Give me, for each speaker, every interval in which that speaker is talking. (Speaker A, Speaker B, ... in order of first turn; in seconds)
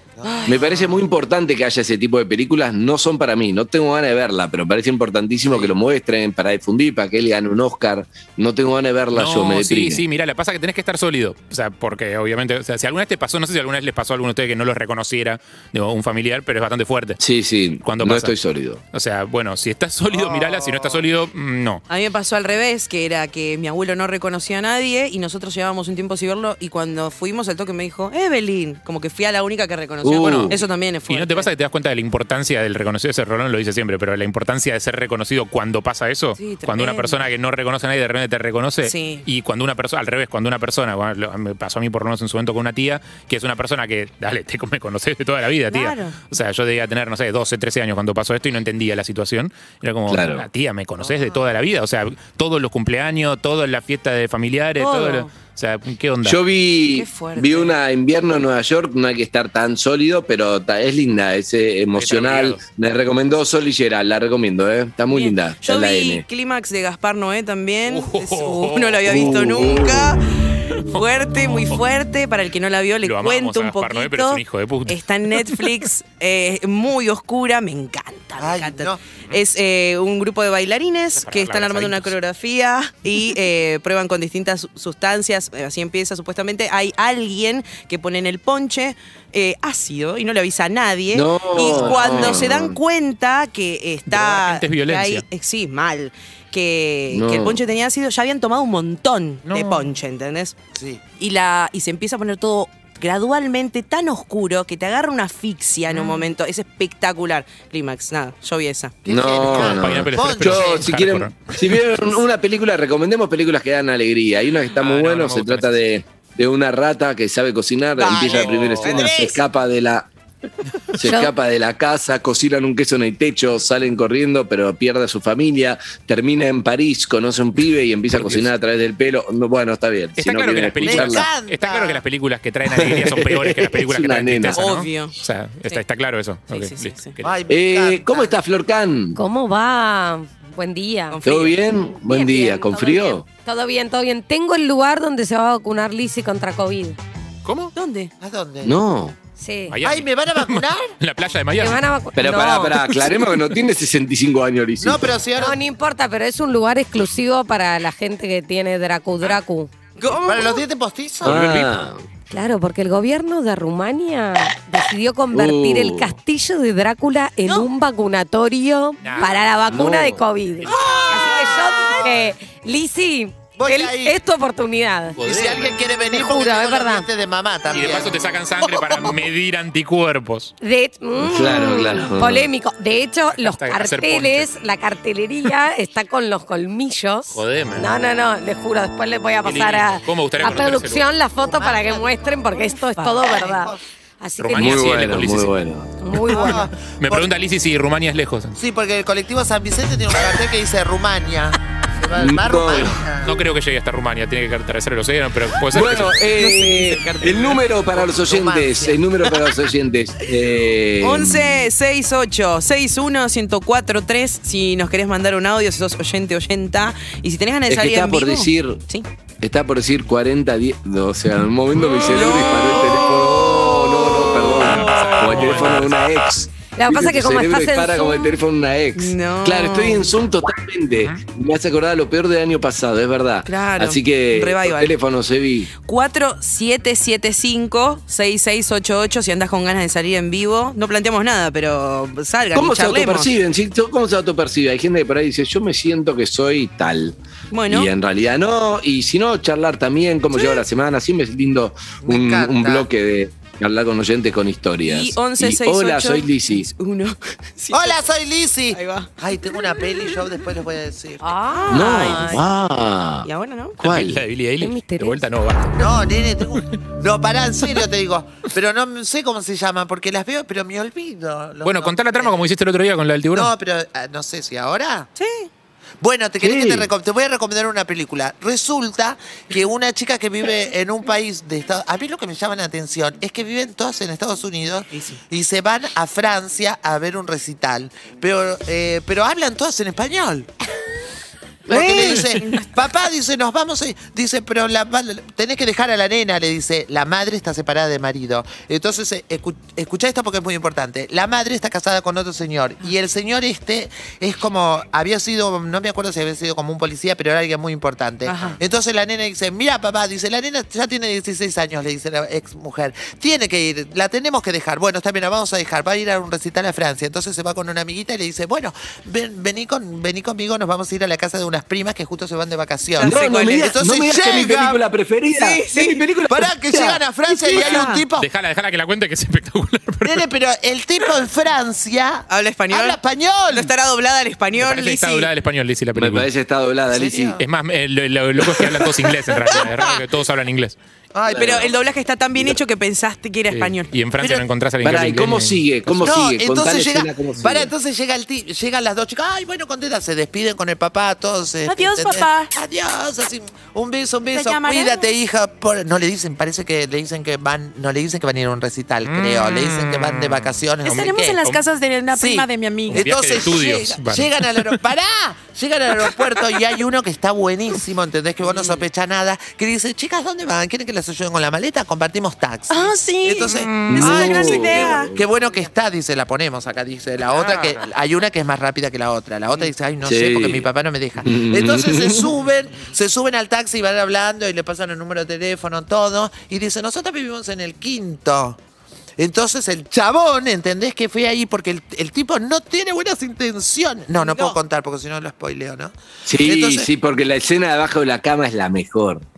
Speaker A: 0.2-1.0, 20.1-21.0, 51.0-51.4, 78.4-79.0, 91.6-92.2, 100.8-101.0, 109.0-110.9, 118.0-118.5, 130.8-132.0, 137.2-138.4, 148.2-148.8, 149.8-150.9, 154.8-155.6, 160.2-161.7, 170.8-172.2, 173.6-174.2, 175.2-179.1, 190.4-190.7, 191.3-193.8, 196.3-197.3, 198.6-203.3, 207.9-209.0, 252.0-252.9, 257.7-261.3, 265.8-272.4, 273.3-275.1, 276.0-290.5, 291.7-324.8, 326.3-328.3, 330.0-333.7, 336.9-337.4, 341.1-341.7, 346.0-361.4, 362.1-388.6, 389.2-396.9
Speaker B: 0.2-0.9, 21.9-31.5, 36.4-37.3, 38.8-39.3, 45.7-46.2, 54.8-55.3, 56.9-57.8, 65.1-100.5, 101.2-109.0, 118.0-119.4, 134.6-135.1, 136.5-137.2, 141.1-141.5, 147.8-148.1, 160.0-160.6, 170.7-171.1, 206.4-207.6, 211.0-219.1, 221.7-225.6, 229.0-230.1, 233.5-235.0, 235.8-243.3, 247.5-247.9, 254.9-258.0, 258.7-259.1, 261.5-262.4, 263.2-263.8, 275.2-275.5, 291.7-292.7, 308.2-308.6, 323.0-323.8, 325.3-326.0, 327.3-328.1, 332.3-333.0, 333.5-335.3, 339.4-339.9, 341.3-343.9, 351.7-352.5, 354.3-355.1, 360.8-363.4, 368.4-368.8, 372.7-375.1, 394.2-394.6
Speaker C: 0.5-10.0, 17.2-18.8, 30.0-30.6, 50.1-50.5, 56.2-66.2, 69.0-70.2, 91.1-92.8, 97.1-97.6, 109.1-120.1, 121.0-131.3, 132.7-134.7, 137.5-139.2, 141.2-143.2, 148.6-149.2, 152.2-155.1, 161.2-162.0, 165.3-166.2, 169.7-170.2, 181.2-182.5, 194.6-195.9, 202.2-203.0, 205.7-211.7, 217.7-218.8, 219.4-235.7, 242.5-247.2, 247.7-256.7, 261.7-263.3, 263.8-264.2, 276.4-276.9, 323.0-327.0, 335.9-337.4, 338.4-338.9, 341.3-341.7, 344.8-347.7, 373.9-375.3, 380.0-382.3, 396.3-399.2
Speaker D: 9.1-17.2, 17.8-18.3, 18.9-21.8, 30.1-56.4, 62.0-62.6, 67.9-69.3, 70.8-71.8, 73.0-75.7, 81.2-82.2, 94.1-95.2, 99.5-99.8, 109.5-111.4, 114.8-115.8, 118.3-119.0, 128.1-128.5, 130.2-137.4, 147.4-147.7, 149.7-151.8, 152.7-153.6, 169.0-169.4, 175.2-175.8, 177.7-180.5, 183.4-184.5, 187.3-187.9, 189.4-191.1, 194.4-195.6, 196.3-198.6, 203.2-206.4, 224.6-225.9, 231.0-231.2, 263.8-265.9, 271.6-273.5, 328.2-330.3, 334.6-336.3, 337.4-340.8, 343.5-345.6, 359.0-360.6, 362.9-364.7, 373.5-374.2, 377.3-377.8
Speaker E: 121.0-121.3, 139.2-141.2, 142.0-147.0, 149.4-149.8, 151.6-152.8, 155.4-159.7, 162.3-175.2, 176.0-177.1, 180.6-194.8, 196.0-196.7, 226.8-228.4, 261.2-262.4, 264.6-265.2